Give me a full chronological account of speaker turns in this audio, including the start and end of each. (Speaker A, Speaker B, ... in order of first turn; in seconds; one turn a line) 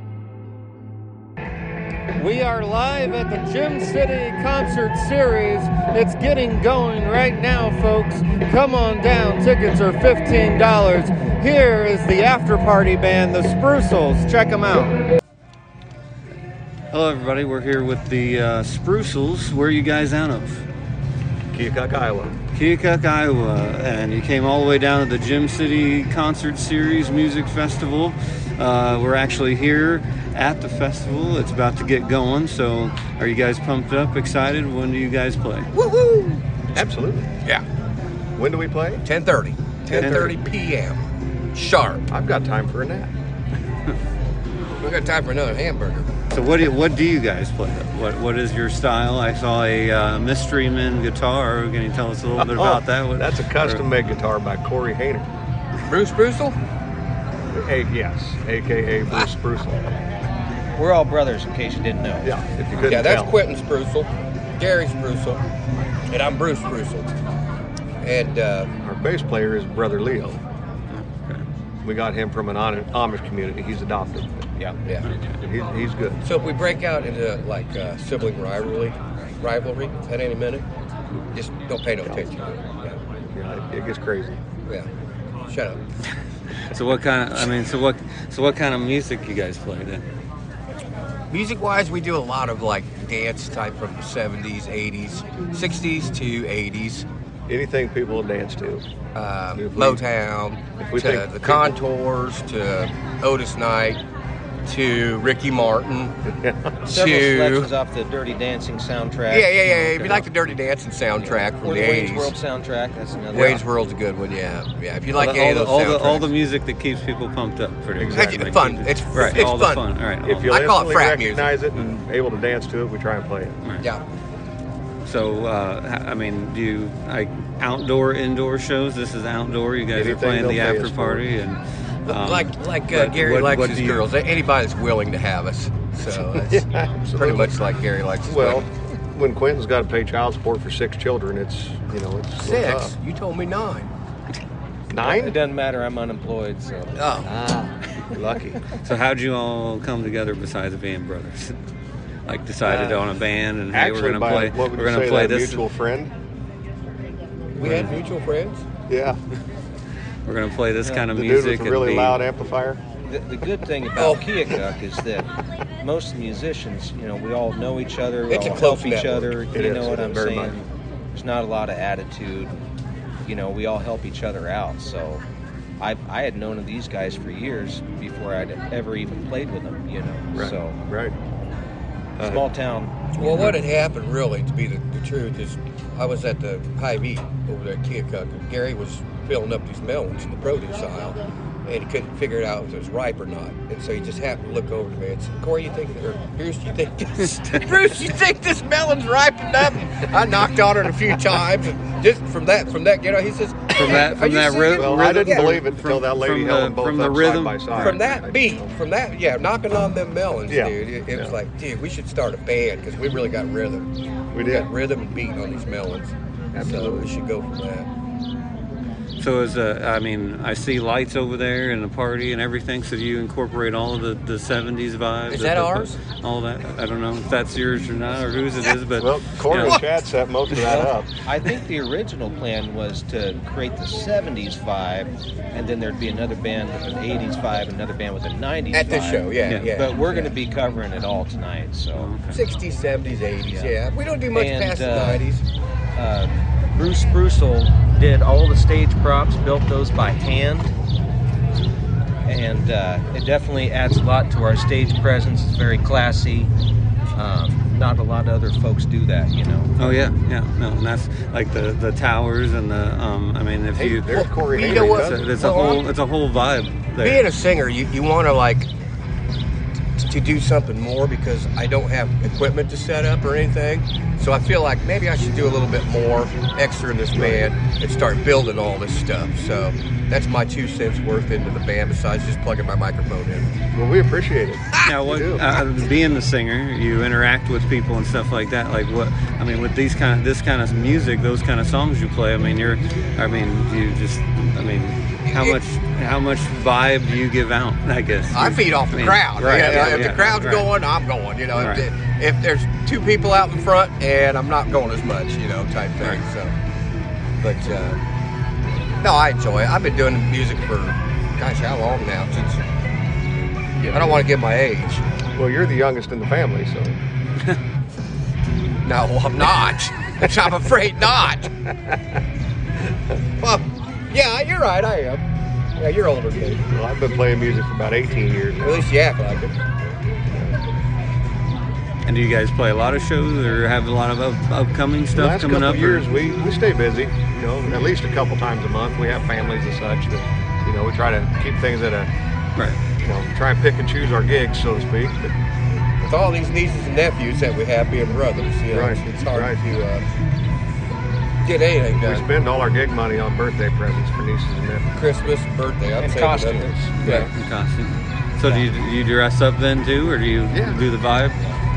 Speaker A: 2.1-15.0
Speaker A: 16.9-20.6
Speaker B: 21.5-22.4
Speaker A: 22.5-35.7
Speaker C: 35.8-36.8
Speaker B: 36.7-37.3
Speaker B: 38.4-39.0
Speaker C: 39.0-42.0
Speaker B: 39.9-40.4
Speaker A: 40.0-40.3
Speaker B: 42.1-43.1
Speaker C: 44.8-46.1
Speaker A: 46.3-53.9
Speaker B: 52.4-55.3
Speaker C: 55.9-56.6
Speaker B: 57.5-60.0
Speaker D: 60.8-62.3
Speaker B: 62.2-63.4
Speaker C: 62.8-65.4
Speaker C: 66.1-67.1
Speaker C: 68.0-68.7
Speaker B: 68.8-70.4
Speaker A: 70.9-71.5
Speaker B: 71.8-74.5
Speaker B: 75.3-76.2
Speaker C: 76.2-80.7
Speaker C: 81.3-83.0
Speaker B: 83.3-84.4
Speaker C: 85.5-85.8
Speaker A: 86.7-90.0
Speaker C: 91.3-97.1
Speaker B: 97.5-98.8
Speaker C: 99.2-104.0
Speaker B: 99.5-100.0
Speaker B: 100.8-101.7
Speaker C: 104.7-106.2
Speaker B: 106.3-106.8
Speaker D: 106.9-110.3
Speaker C: 106.9-107.7
Speaker C: 109.3-112.3
Speaker D: 111.2-113.6
Speaker C: 113.3-116.3
Speaker A: 115.1-120.6
Speaker B: 118.0-118.8
Speaker C: 118.1-119.8
Speaker B: 120.2-123.6
Speaker C: 120.5-121.5
Speaker A: 123.6-123.9
Speaker A: 125.0-134.1
Speaker B: 129.9-131.2
Speaker C: 132.1-138.7
Speaker B: 136.4-137.6
Speaker B: 138.2-142.9
Speaker C: 142.4-143.9
Speaker B: 144.9-145.4
Speaker D: 145.0-147.2
Speaker C: 147.0-147.3
Speaker B: 147.2-148.7
Speaker A: 148.8-151.6
Speaker A: 152.3-155.6
Speaker B: 152.6-153.1
Speaker B: 153.7-156.1
Speaker C: 157.6-158.7
Speaker A: 157.6-157.9
Speaker B: 158.9-159.2
Speaker A: 160.3-162.2
Speaker B: 161.1-162.8
Speaker D: 163.1-165.3
Speaker C: 164.0-164.3
Speaker D: 165.8-172.6
Speaker C: 168.3-169.3
Speaker B: 169.5-170.6
Speaker D: 173.2-175.2
Speaker D: 175.8-180.8
Speaker B: 180.3-181.2
Speaker B: 182.2-182.5
Speaker D: 182.2-182.9
Speaker C: 183.2-205.6
Speaker B: 183.2-183.6
Speaker A: 203.7-208.0
Speaker B: 204.7-208.7
Speaker C: 207.8-213.9
Speaker B: 210.5-211.3
Speaker B: 214.3-214.7
Speaker C: 214.5-217.9
Speaker B: 216.5-217.1
Speaker A: 219.2-229.9
Speaker C: 225.3-226.0
Speaker B: 229.0-231.1
Speaker C: 229.5-229.9
Speaker A: 230.5-230.8
Speaker D: 230.7-242.1
Speaker C: 238.7-240.4
Speaker A: 241.9-242.3
Speaker C: 242.3-245.4
Speaker D: 244.3-245.3
Speaker D: 246.0-250.7
Speaker D: 252.3-256.5
Speaker D: 257.1-260.0
Speaker A: 259.8-267.3
Speaker B: 263.8-265.3
Speaker C: 264.1-265.9
Speaker C: 267.0-268.7
Speaker C: 270.0-283.5
Speaker B: 277.2-277.5
Speaker B: 283.7-285.4
Speaker A: 284.9-300.7
Speaker C: 295.3-295.6
Speaker C: 298.3-306.5
Speaker A: 301.6-301.9
Speaker C: 307.4-308.0
Speaker C: 309.0-312.6
Speaker B: 313.8-314.3
Speaker C: 313.9-315.0
Speaker B: 315.4-317.0
Speaker C: 318.8-321.5
Speaker C: 323.4-325.2
Speaker C: 325.8-326.7
Speaker B: 326.7-328.8
Speaker C: 328.6-329.6
Speaker B: 330.3-330.6
Speaker A: 332.1-336.1
Speaker B: 335.1-342.1
Speaker B: 343.0-345.3
Speaker C: 346.0-350.1
Speaker B: 348.7-349.6
Speaker C: 351.4-352.3
Speaker B: 352.0-354.9
Speaker C: 354.9-357.3
Speaker D: 356.0-356.9
Speaker A: 357.0-361.4
Speaker B: 357.0-357.3
Speaker B: 360.5-360.8